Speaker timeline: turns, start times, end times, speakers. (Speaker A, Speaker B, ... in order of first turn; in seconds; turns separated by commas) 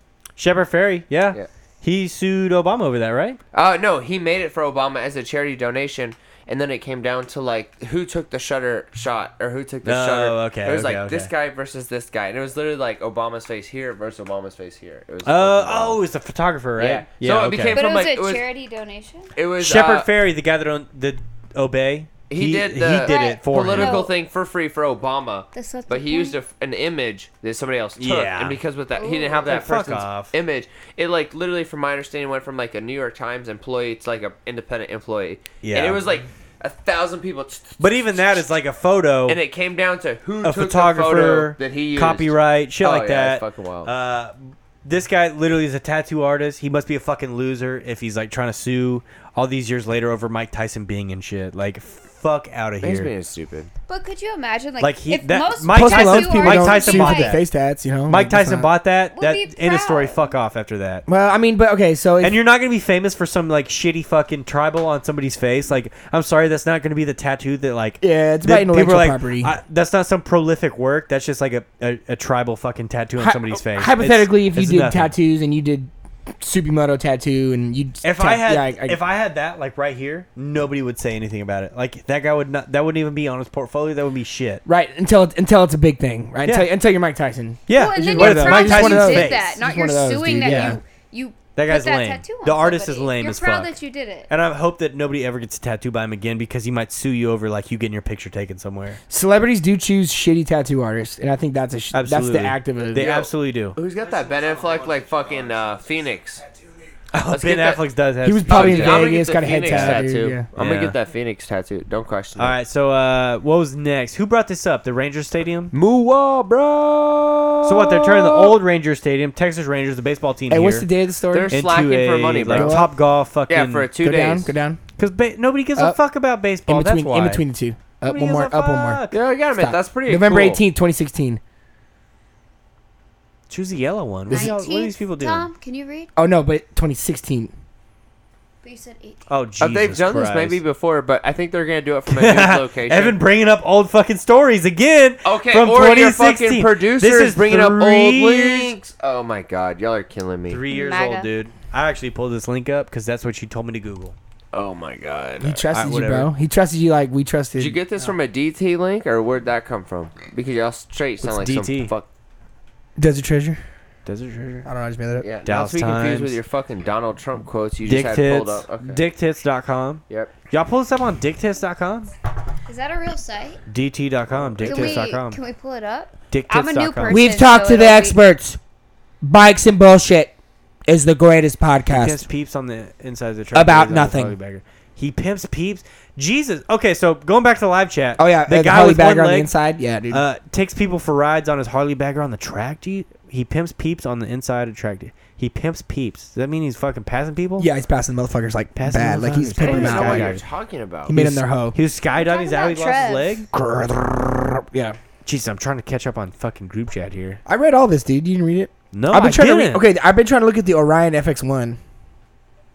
Speaker A: 0.4-3.4, Speaker B: 3.5-16.0, Speaker A: 9.8-11.3, Speaker A: 15.2-17.8, Speaker B: 16.8-18.4, Speaker C: 17.7-19.3, Speaker B: 19.4-20.1, Speaker A: 19.6-24.1, Speaker B: 22.3-38.5, Speaker C: 23.0-24.1, Speaker C: 25.5-26.4, Speaker A: 28.0-28.6, Speaker C: 28.9-29.5, Speaker A: 29.4-30.3, Speaker A: 35.6-36.2, Speaker A: 37.8-39.4, Speaker B: 39.2-43.9, Speaker A: 40.4-53.1, Speaker B: 52.8-53.7, Speaker C: 53.9-57.4, Speaker A: 54.8-57.4, Speaker D: 55.7-58.7, Speaker A: 58.1-61.0, Speaker C: 59.1-60.3, Speaker D: 61.1-62.4, Speaker A: 62.2-75.1, Speaker D: 68.0-69.5, Speaker D: 73.2-79.0, Speaker A: 78.0-84.6, Speaker D: 84.7-90.8, Speaker A: 87.7-89.6, Speaker C: 87.7-94.3, Speaker A: 90.4-90.8, Speaker A: 91.5-93.7, Speaker A: 94.3-99.0, Speaker D: 99.1-103.1, Speaker A: 101.9-103.8, Speaker B: 103.0-106.4, Speaker A: 107.1-111.0, Speaker B: 107.3-107.9, Speaker D: 108.2-110.5, Speaker B: 108.5-112.5, Speaker A: 112.4-115.7, Speaker B: 115.7-118.5, Speaker A: 117.6-120.9, Speaker D: 120.5-121.6, Speaker B: 121.3-122.8, Speaker A: 121.5-123.9, Speaker D: 122.5-122.9, Speaker B: 123.5-124.5, Speaker D: 124.0-124.8, Speaker A: 125.0-127.4, Speaker D: 126.7-131.4, Speaker A: 128.0-129.2, Speaker B: 129.1-130.6, Speaker A: 133.5-135.4, Speaker D: 134.3-134.5, Speaker C: 134.3-136.1, Speaker D: 136.2-137.5, Speaker C: 138.6-139.3, Speaker A: 139.3-140.6, Speaker B: 139.6-143.2, Speaker A: 142.1-148.8, Speaker B: 145.2-150.6, Speaker A: 150.5-154.2, Speaker C: 150.7-151.3, Speaker B: 154.5-155.6, Speaker D: 155.4-157.8, Speaker A: 155.7-156.3, Speaker B: 157.6-162.1, Speaker A: 161.2-161.9, Speaker D: 163.0-163.6, Speaker A: 164.0-164.7, Speaker D: 164.6-165.3, Speaker B: 165.2-169.0, Speaker A: 165.4-166.4, Speaker A: 167.8-172.1, Speaker B: 170.1-170.3, Speaker C: 172.7-173.6, Speaker A: 173.7-175.4, Speaker B: 174.4-175.0, Speaker C: 174.7-178.2, Speaker A: 176.3-177.2, Speaker D: 177.1-178.6, Speaker D: 179.2-180.3, Speaker D: 180.9-182.2, Speaker A: 181.9-189.5, Speaker D: 183.5-184.3, Speaker D: 188.2-190.2, Speaker A: 190.1-197.7, Speaker D: 197.6-200.3, Speaker A: 198.8-200.4, Speaker B: 199.6-201.2, Speaker A: 201.1-203.5, Speaker D: 201.1-201.8, Speaker C: 202.1-203.4, Speaker D: 203.5-204.9, Speaker A: 205.2-207.4, Speaker D: 207.4-211.8, Speaker A: 208.9-209.8